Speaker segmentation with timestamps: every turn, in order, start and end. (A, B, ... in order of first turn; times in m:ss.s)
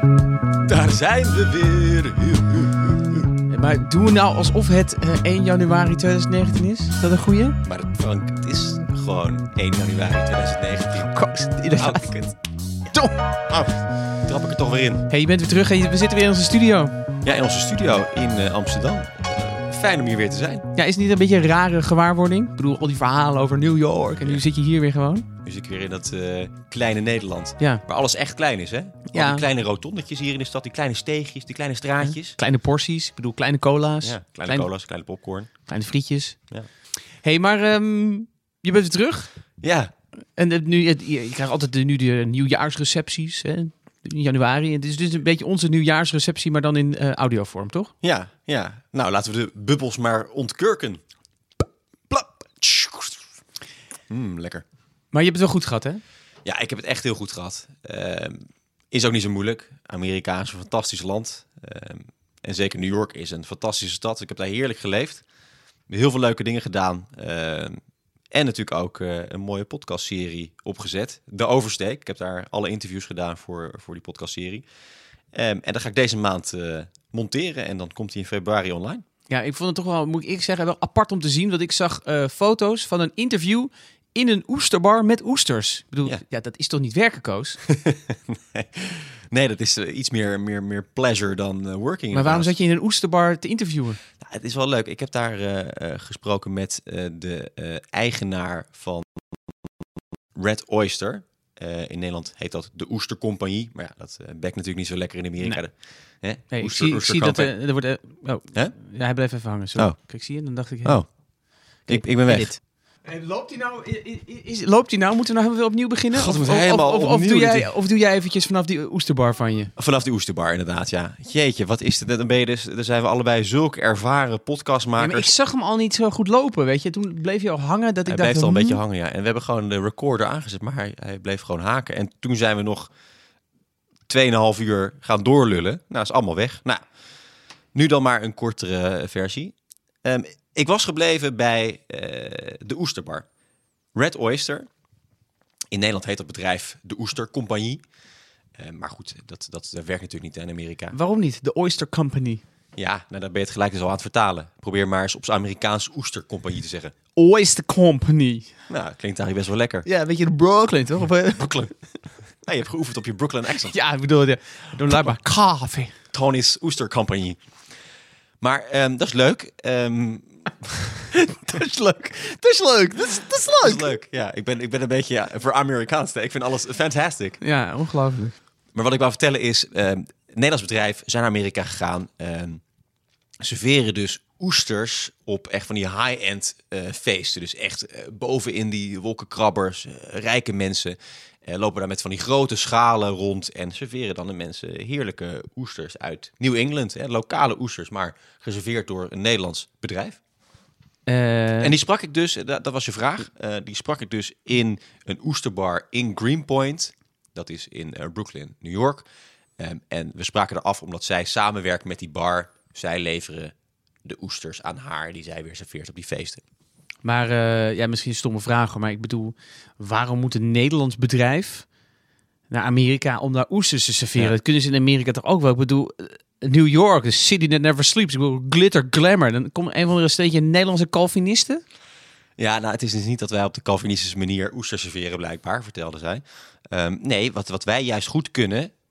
0:00.7-0:03.3 A
0:03.5-0:07.6 B
0:07.6-0:11.1 A
0:11.0-0:12.2 B
0:11.8-0:12.4 A
0:12.9-0:13.2 B
0:13.5-0:15.1 A
0:15.1-0:16.9 B
0:17.2-0:20.7 A
0:20.7-0:25.2 B
0:25.4-0:32.4 A
0:29.1-0:29.4 B
0:32.0-0:34.7 B
0:34.0-0:35.7 A
0:35.6-0:39.4 B
0:39.6-0:39.9 A
0:40.3-0:47.9 B
0:48.0-0:51.0 A
0:52.1-0:53.2 A
0:54.1-0:54.6 A
0:55.1-0:56.0 B
0:56.4-1:05.2 A
1:05.9-1:07.8 A
1:08.3-1:14.6 A
1:15.3-1:19.0 A
1:19.3-1:27.6 B
1:27.7-1:32.5 A
1:32.1-1:34.0 B
1:34.2-1:39.5 A
1:40.3-1:47.6 A
1:46.5-1:51.2 B
1:50.8-1:52.5 A
1:51.8-1:59.7 B
1:56.1-1:57.7 A
1:59.8-2:05.3 A
2:05.0-2:08.8 B
2:08.1-2:12.9 A
2:14.1-2:16.9 A
2:17.7-2:23.2 A
2:23.9-2:24.7 A
2:25.7-2:27.8 A
2:28.6-2:30.9 A
2:30.9-2:32.4 B
2:32.8-2:36.9 A
2:37.2-2:38.5 B
2:38.7-2:39.9 A
2:39.8-2:41.7 B
2:41.4-2:41.7 A
2:42.2-2:43.8 A
2:43.6-2:45.9 B
2:46.1-2:47.4 A
2:48.4-2:51.1 A
2:51.1-2:53.8 B
2:53.5-2:57.4 A
2:57.4-2:58.4 B
2:58.7-3:02.6 A
3:03.4-3:20.2 A
3:21.1-3:21.7 B
3:21.6-3:29.0 A
3:29.6-3:36.4 A
3:37.0-3:41.7 B
3:42.5-3:51.6 B
3:52.4-3:58.7 A